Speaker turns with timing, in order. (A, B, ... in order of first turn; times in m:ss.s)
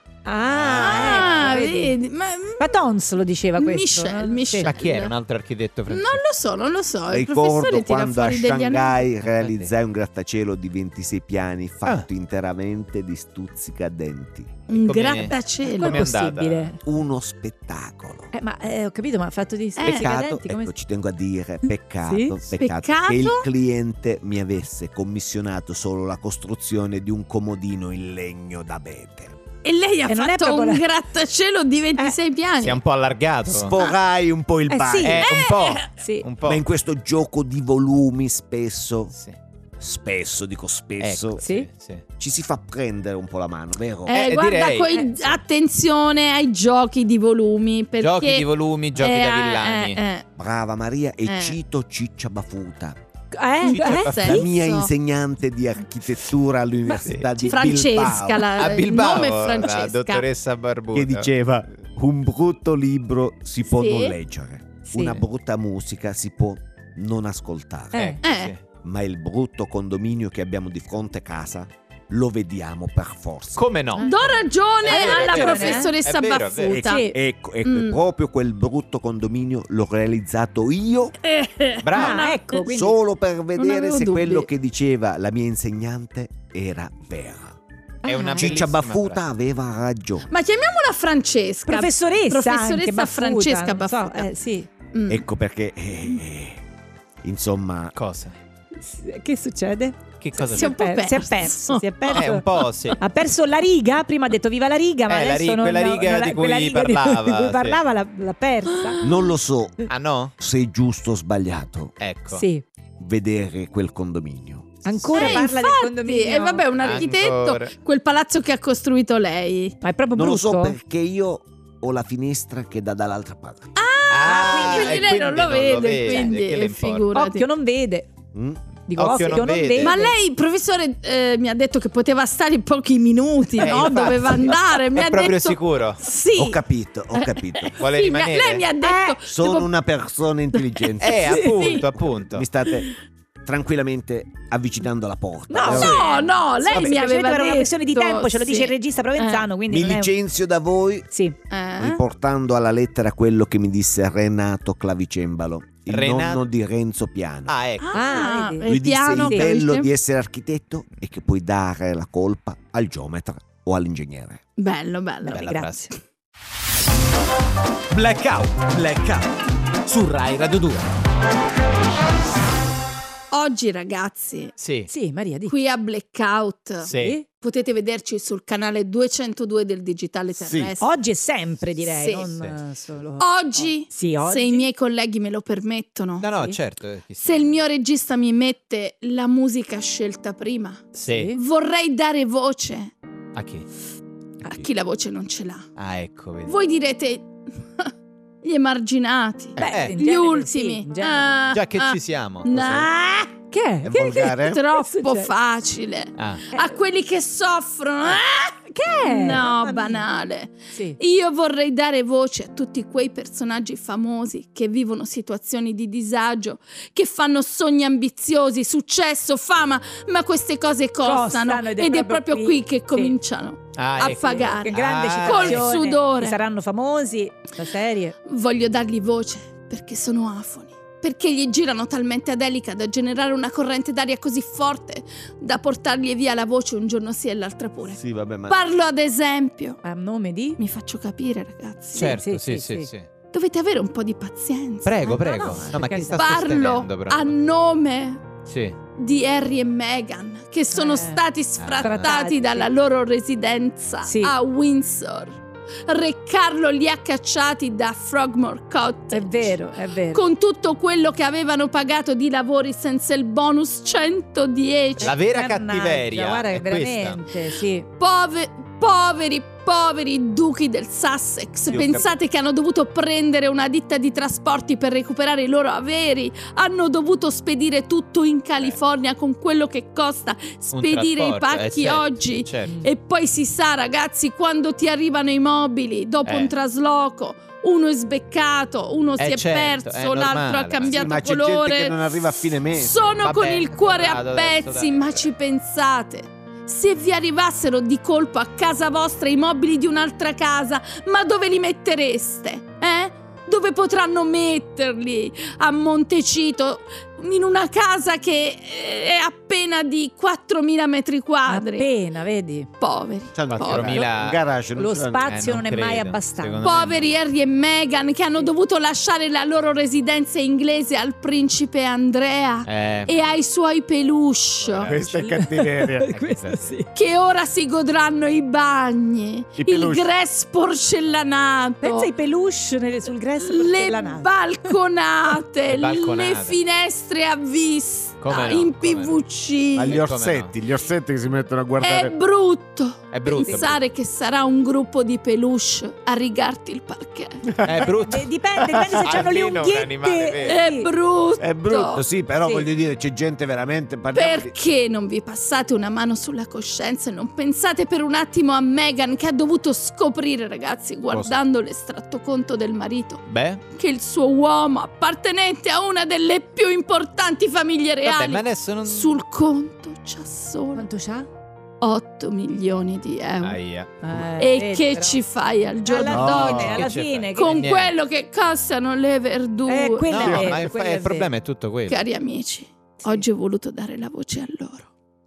0:00.3-0:02.0 A
0:00.5-0:01.7 B
0:00.8-0:02.7 C
0:02.6-0:04.7 A
0:03.6-0:05.1 C
0:04.6-0:06.2 B
0:05.9-0:09.0 C
0:07.1-0:14.6 D
0:09.3-0:09.7 B
0:14.7-0:16.1 C
0:14.8-0:16.8 B
0:15.6-0:16.8 A
0:16.8-0:18.3 D
0:18.3-0:20.7 A
0:19.8-0:20.1 C
0:19.8-0:29.4 D
0:22.1-0:22.4 A
0:22.6-0:23.4 C
0:29.6-0:32.8 C
0:30.1-0:30.9 A
0:32.6-0:33.7 B
0:33.4-0:35.3 D
0:34.7-0:36.3 A
0:35.0-0:36.6 B
0:35.3-0:35.9 C
0:36.5-0:39.1 D
0:39.8-0:41.4 D
0:41.0-0:42.0 B
0:41.4-0:41.7 A
0:42.2-0:44.1 D
0:44.1-0:50.2 C
0:44.1-0:45.4 B
0:48.0-0:50.0 B
0:50.4-0:53.0 D
0:51.3-0:51.6 C
0:53.3-0:54.3 A
0:53.6-0:54.9 C
0:53.7-0:54.5 B
0:54.1-0:58.7 D
0:57.0-0:57.3 B
0:57.4-1:00.2 C
0:58.4-1:01.3 B
1:00.9-1:08.2 D
1:03.7-1:04.2 C
1:04.9-1:05.2 A
1:07.9-1:08.2 A
1:08.2-1:08.6 B
1:08.2-1:08.5 C
1:08.8-1:13.6 D
1:13.6-1:14.1 B
1:14.0-1:15.9 A
1:14.0-1:17.1 C
1:14.8-1:16.9 B
1:16.7-1:21.2 D
1:16.8-1:17.2 A
1:17.6-1:18.0 C
1:21.2-1:22.7 C
1:21.8-1:22.3 B
1:21.9-1:23.0 A
1:22.7-1:27.6 D
1:23.6-1:24.5 C
1:28.0-1:29.2 B
1:28.1-1:28.4 A
1:28.1-1:28.5 C
1:28.4-1:30.3 D
1:30.3-1:34.3 C
1:31.7-1:34.7 A
1:34.9-1:35.2 C
1:35.1-1:36.6 D
1:37.2-1:38.0 D
1:38.0-1:38.4 B
1:38.8-1:42.5 A
1:40.2-1:40.8 B
1:40.4-1:42.6 C
1:42.1-1:43.0 B
1:43.0-1:49.0 A
1:45.1-1:47.8 B
1:48.8-1:49.2 C
1:49.0-1:49.9 D
1:49.9-1:50.3 B
1:50.4-1:51.9 D
1:52.0-1:52.4 B
1:52.3-1:52.6 A
1:53.0-1:55.4 D
1:54.8-1:56.7 A
1:55.1-1:59.8 C
1:56.8-1:57.7 B
1:59.8-2:00.8 A
2:00.2-2:03.7 D
2:03.8-2:07.5 C
2:04.1-2:07.1 B
2:04.3-2:05.0 A
2:05.8-2:06.4 A
2:07.2-2:08.1 A
2:08.3-2:08.6 D
2:08.9-2:10.1 A
2:08.9-2:10.0 B
2:09.8-2:16.6 C
2:13.6-2:16.0 B
2:16.4-2:17.8 D
2:17.2-2:19.7 C
2:17.8-2:18.7 B
2:18.8-2:19.2 A
2:19.3-2:22.9 D
2:21.0-2:22.5 B
2:21.4-2:21.8 C
2:23.4-2:26.0 D
2:25.5-2:30.1 A
2:25.7-2:26.4 B
2:25.7-2:29.5 C
2:29.7-2:31.1 D
2:31.1-2:31.4 A
2:31.5-2:32.0 C
2:31.8-2:37.5 D
2:35.9-2:36.4 B
2:37.5-2:38.2 B
2:37.8-2:39.9 C
2:37.9-2:39.5 A
2:38.6-2:44.4 D
2:44.6-2:45.5 C
2:45.2-2:45.7 A
2:45.3-2:45.9 B
2:47.9-2:49.3 E
2:49.9-2:50.9 E
2:53.3-2:54.5 C
2:54.6-2:54.9 B
2:54.9-2:55.6 A
2:55.5-3:00.9 C
2:56.8-2:57.2 B
2:56.9-2:57.2 A
3:00.3-3:00.7 D
3:00.8-3:04.7 A
3:01.8-3:02.3 C
3:03.2-3:06.3 C
3:06.2-3:07.6 B
3:06.3-3:06.6 A
3:07.2-3:12.9 C
3:10.9-3:11.3 B
3:11.1-3:11.4 A
3:13.4-3:13.7 B
3:14.4-3:15.7 C
3:15.8-3:16.6 B
3:16.5-3:17.9 C
3:18.4-3:22.9 C
3:19.6-3:20.0 B
3:19.6-3:21.3 A
3:21.5-3:22.5 B
3:22.5-3:22.9 D
3:22.5-3:24.0 A
3:23.8-3:24.6 D
3:23.9-3:46.4 C
3:24.8-3:25.3 A
3:26.2-3:26.5 B
3:28.7-3:30.1 A
3:30.7-3:31.0 A
3:41.0-3:43.2 A
3:43.8-3:45.7 B
3:44.4-3:48.2 A
3:48.3-3:59.8 C
3:57.9-3:58.6 D
3:59.8-4:00.6 A
4:00.6-4:02.1 C
4:01.9-4:02.9 A
4:01.9-4:03.1 B
4:03.3-4:05.2 C
4:04.8-4:07.4 B
4:05.0-4:06.3 A
4:06.1-4:08.3 C
4:08.5-4:08.8 B
4:09.0-4:19.5 C
4:10.7-4:11.2 A
4:11.6-4:12.1 B
4:11.8-4:12.7 A
4:14.0-4:14.4 A
4:19.1-4:20.2 A
4:20.1-4:25.2 C
4:25.0-4:27.9 A
4:25.0-4:27.2 B
4:28.0-5:11.9 C
4:31.7-4:32.1 D
4:31.7-4:32.1 B
4:40.7-4:42.7 B
4:46.2-4:46.5 B
4:49.2-4:51.0 B
4:50.8-4:53.0 D
4:53.2-4:55.3 B
5:11.5-5:12.7 A
5:12.8-5:14.0 C
5:13.4-5:15.3 D
5:13.5-5:14.4 B
5:14.8-5:16.7 A
5:15.3-5:17.2 B
5:16.6-5:24.9 C
5:22.7-5:23.2 B
5:24.6-5:25.5 B
5:24.9-5:26.2 D
5:25.4-5:26.9 A
5:26.1-5:26.8 B
5:26.9-5:32.1 C
5:29.6-5:30.1 D
5:31.8-5:34.7 A
5:33.4-5:40.0 C
5:35.7-5:36.6 B
5:38.2-5:39.2 B
5:39.8-5:42.2 D
5:39.9-5:40.5 B
5:41.8-5:47.6 C
5:43.1-5:43.8 B
5:43.4-5:43.7 A
5:47.6-5:47.9 D
5:47.6-5:48.3 B
5:48.0-5:50.9 A
5:48.7-5:49.2 D
5:49.0-5:50.6 B
5:50.4-5:52.0 C
5:51.4-5:54.6 D
5:52.4-5:52.7 A
5:54.1-6:03.2 C
6:03.3-6:03.6 B
6:03.7-6:10.9 C
6:08.0-6:09.2 B
6:10.7-6:11.3 A
6:11.8-6:13.6 C
6:13.4-6:14.0 B
6:14.0-6:15.2 A
6:14.4-6:20.4 C
6:15.8-6:17.6 A
6:16.1-6:17.9 B
6:16.1-6:16.6 D
6:19.7-6:21.3 A
6:20.1-6:22.0 B
6:21.9-6:24.9 C